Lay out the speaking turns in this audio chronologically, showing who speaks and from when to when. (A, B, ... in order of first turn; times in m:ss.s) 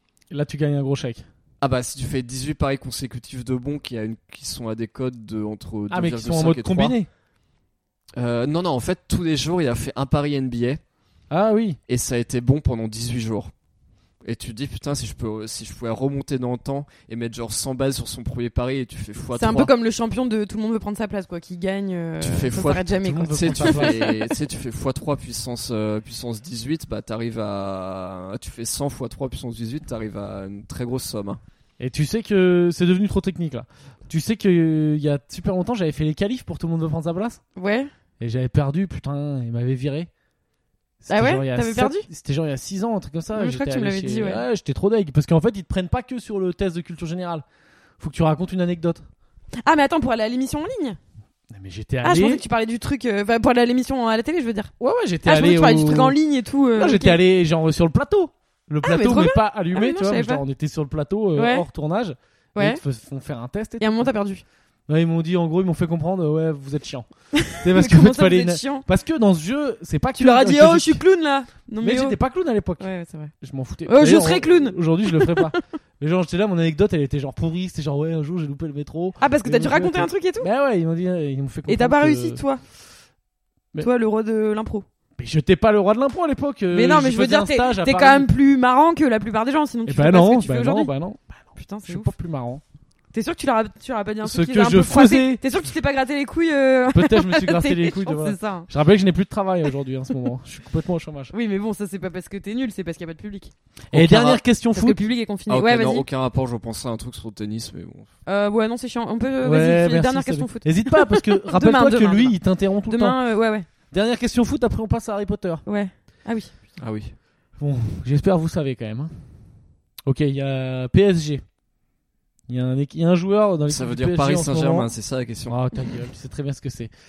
0:00.3-0:01.2 A
0:01.6-0:07.0 B
0:05.9-0:07.1 A
0:08.2-0:10.8 B
0:11.3-0:11.8 A
0:11.9-0:13.5 B
0:14.2-0:19.7 B
0:19.3-0:24.2 C
0:22.2-0:31.4 B
0:23.0-0:24.1 A
0:31.8-0:37.4 A
0:37.6-0:37.9 C
0:38.2-0:40.1 A
0:41.0-0:47.4 A
0:41.1-0:42.1 C
0:43.3-0:44.4 C
0:48.0-0:49.0 A
0:49.6-0:51.0 C
0:51.5-0:52.4 A
0:52.0-0:54.7 C
0:54.8-0:56.2 A
0:55.2-0:57.2 C
0:56.8-1:04.1 A
0:58.8-1:00.4 C
1:01.3-1:01.6 C
1:02.5-1:02.8 C
1:03.8-1:04.4 C
1:04.9-1:11.0 A
1:07.3-1:08.8 C
1:10.2-1:12.2 C
1:11.8-1:12.9 A
1:12.8-1:13.3 C
1:13.4-1:22.4 A
1:13.8-1:15.6 C
1:19.2-1:20.5 C
1:21.7-1:22.6 C
1:23.8-1:24.8 C
1:25.2-1:28.3 A
1:26.7-1:30.9 C
1:29.8-1:32.6 A
1:31.6-1:32.1 C
1:33.1-1:38.7 C
1:34.2-1:35.4 A
1:36.9-1:41.3 A
1:41.3-1:46.0 C
1:43.9-1:45.0 A
1:45.5-1:48.1 B
1:48.2-1:53.7 C
1:49.4-1:53.2 A
1:53.9-1:55.6 A
1:55.6-1:56.5 C
1:56.8-1:57.1 B
1:57.6-1:59.2 A
2:00.0-2:01.4 A
2:02.5-2:04.9 A
2:03.7-2:05.6 B
2:05.5-2:06.9 A